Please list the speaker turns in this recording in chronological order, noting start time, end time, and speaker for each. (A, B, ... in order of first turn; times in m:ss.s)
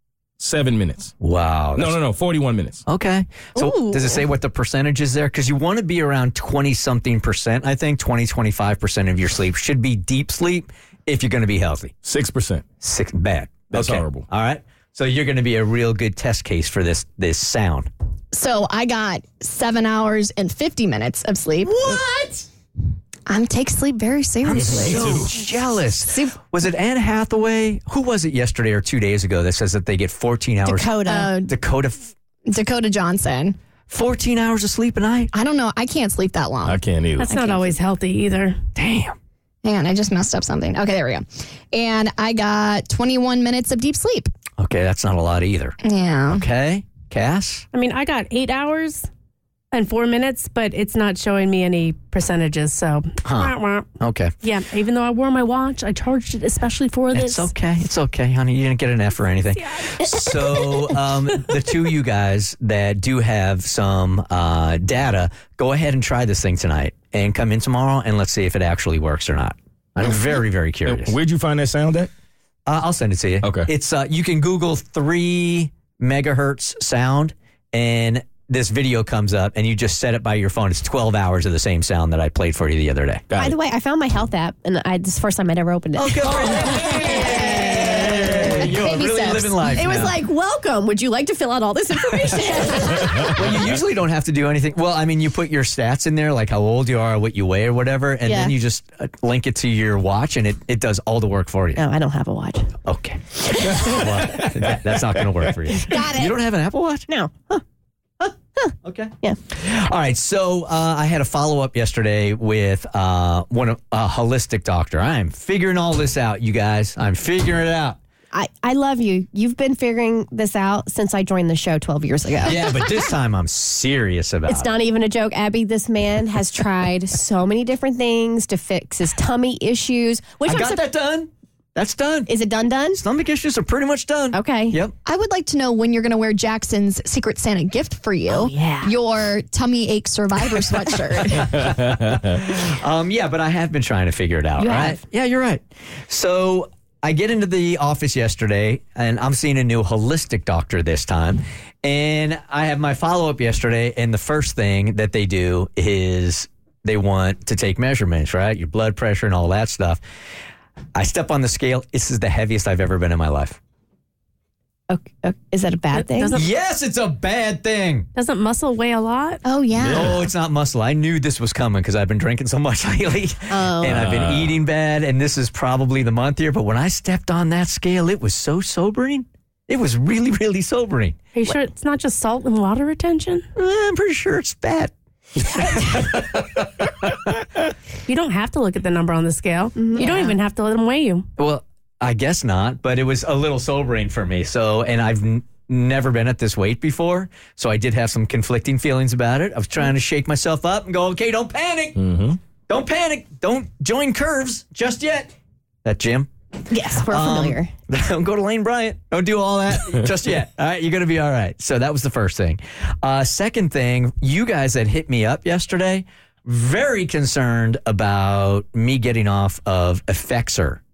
0:00.4-0:01.1 A
0:01.2-0:02.0 B
0:01.8-0:02.8 A
0:02.9-0:11.9 B
0:12.0-0:12.7 A
0:12.8-0:17.9 B
0:13.7-0:14.2 A
0:18.3-0:21.7 C
0:21.8-0:22.4 B
0:23.3-0:25.1 C
0:24.4-0:32.2 B
0:24.8-0:25.2 A
0:30.7-0:31.3 D
0:31.0-0:31.5 C
0:32.5-0:33.6 C
0:33.9-0:35.3 B
0:35.3-0:36.8 C
0:36.6-0:37.3 A
0:37.2-0:38.6 E
0:38.8-0:39.2 B
0:39.6-0:44.3 C
0:44.6-0:45.8 B
0:45.8-0:46.4 C
0:46.3-0:47.6 B
0:47.7-0:49.1 E
0:49.7-0:53.9 E
0:53.2-0:54.3 B
0:54.4-0:57.5 E
0:57.1-1:11.2 B
1:10.9-1:12.1 A
1:12.7-1:23.2 B
1:23.4-1:33.7 D
1:26.0-1:30.2 B
1:32.3-1:41.8 B
1:38.3-1:38.6 D
1:41.8-1:42.7 D
1:42.8-1:47.1 B
1:43.5-1:44.0 D
1:43.7-1:44.0 A
1:45.8-1:46.4 D
1:47.1-1:47.6 D
1:48.2-1:49.4 D
1:48.8-1:58.0 B
1:58.3-2:02.6 D
2:02.4-2:04.7 B
2:04.5-2:10.8 D
2:10.4-2:12.3 B
2:12.3-2:13.0 D
2:12.9-2:15.0 B
2:14.3-2:14.8 D
2:15.1-2:21.5 C
2:18.3-2:18.9 D
2:21.3-2:40.0 B
2:21.6-2:22.2 A
2:24.6-2:25.0 D
2:41.0-2:43.6 B
2:44.9-2:46.4 D
2:46.0-2:46.4 E
2:46.3-2:48.1 B
2:48.2-2:49.4 E
2:49.4-2:50.2 D
2:49.8-2:50.2 A
2:49.9-3:01.6 B
2:53.5-2:54.0 D
2:53.8-2:54.6 A
3:01.4-3:03.4 E
3:03.6-3:04.9 B
3:05.6-3:07.1 B
3:08.1-3:11.3 E
3:09.8-3:10.4 D
3:11.4-3:22.0 B
3:22.0-3:22.4 A
3:22.7-3:25.3 B
3:25.8-3:26.3 B
3:26.7-3:27.7 D
3:27.1-3:40.8 B